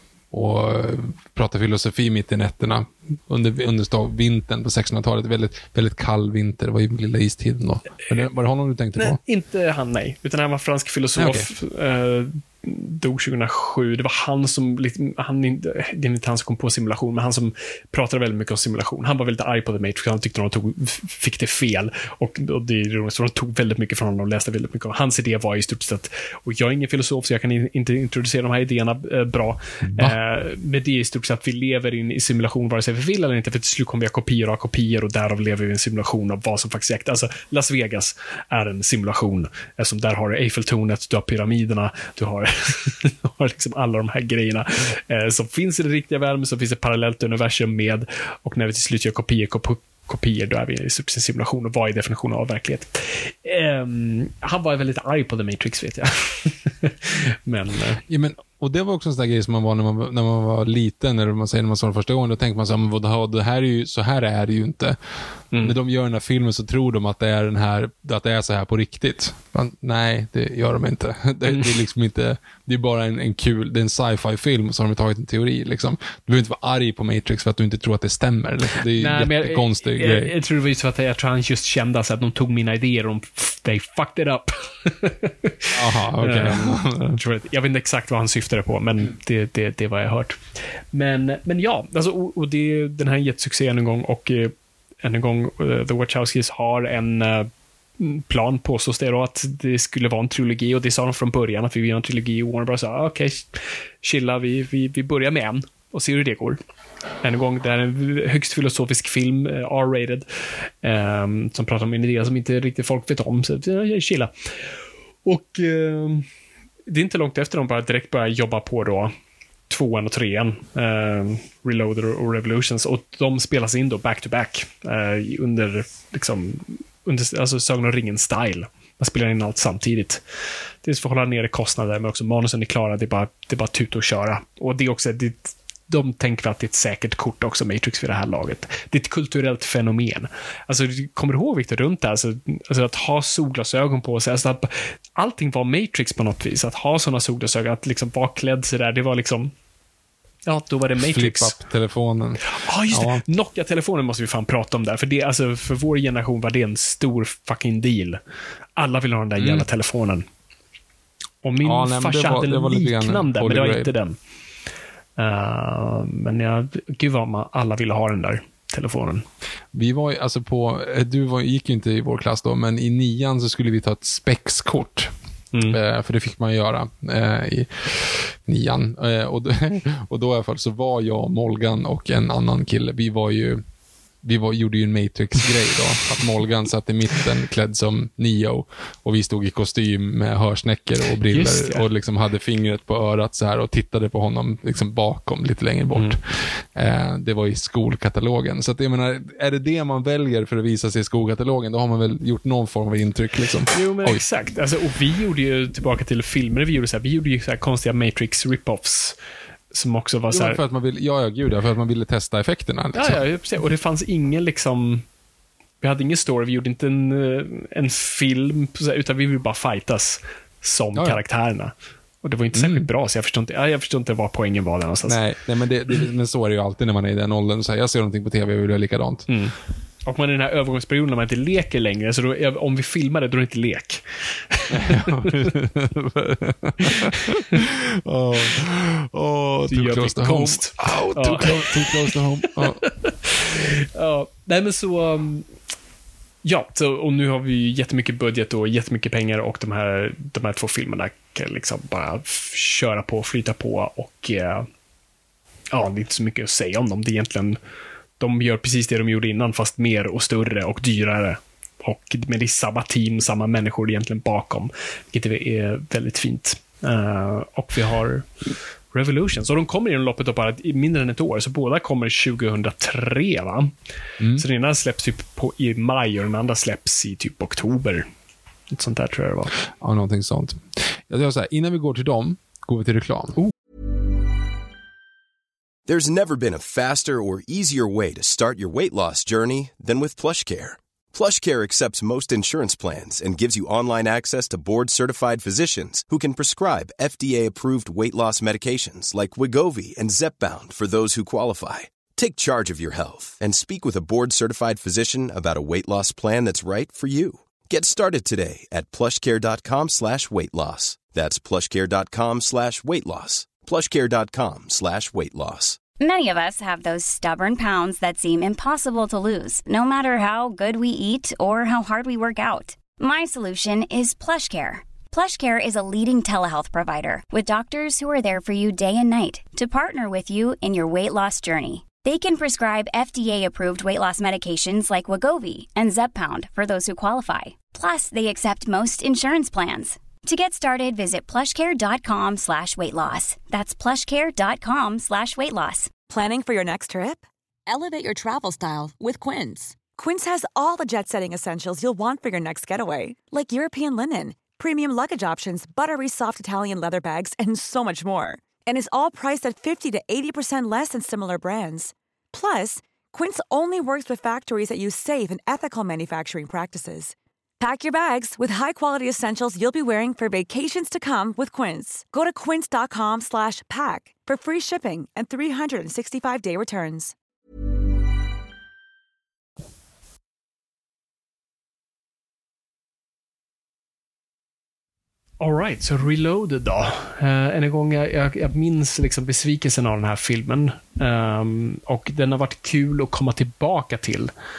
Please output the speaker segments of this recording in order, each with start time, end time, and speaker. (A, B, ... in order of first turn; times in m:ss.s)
0:00.3-0:09.2 A
0:09.0-0:58.0 B
0:11.2-0:11.5 A
0:29.9-0:30.2 A
0:58.1-1:05.0 A
1:05.6-1:20.3 A
1:18.9-1:30.4 B
1:25.7-1:27.2 A
1:30.9-1:37.5 B
1:38.0-1:46.6 B
1:47.2-1:50.3 B
1:50.8-1:54.3 B
1:55.2-1:56.2 B
1:56.9-1:59.1 B
1:59.7-2:10.2 B
2:10.8-2:29.5 B
2:30.5-2:31.5 B
2:31.0-2:33.2 A
2:32.6-2:38.2 B
2:38.8-2:40.3 B
2:39.4-2:39.7 A
2:41.4-2:44.2 B
2:41.6-2:43.9 A
2:45.2-2:49.2 B
2:49.7-2:55.1 A
2:55.5-2:55.8 B
2:55.7-3:03.6 A
3:04.2-3:24.2 A
3:11.3-3:11.8 B
3:23.7-3:29.2 B
3:29.7-3:30.6 B
3:30.3-3:33.2 A
3:32.9-3:35.0 B
3:35.8-3:45.2 B
3:41.0-3:41.2 A
3:42.5-3:42.9 A
3:45.1-3:49.3 A
3:49.3-3:49.5 B
3:50.0-3:55.5 B
3:54.7-4:02.8 A
3:56.8-3:57.4 B
3:59.7-4:05.5 B
4:06.4-4:14.7 B
4:15.7-4:17.6 B
4:18.2-4:33.7 B
4:34.2-4:34.4 A
4:34.4-4:38.1 B
4:38.7-4:39.5 B
4:39.8-4:43.4 A
4:45.9-5:15.8 C
5:16.0-5:45.9 D
5:46.1-6:17.2 E
6:25.4-6:34.3 B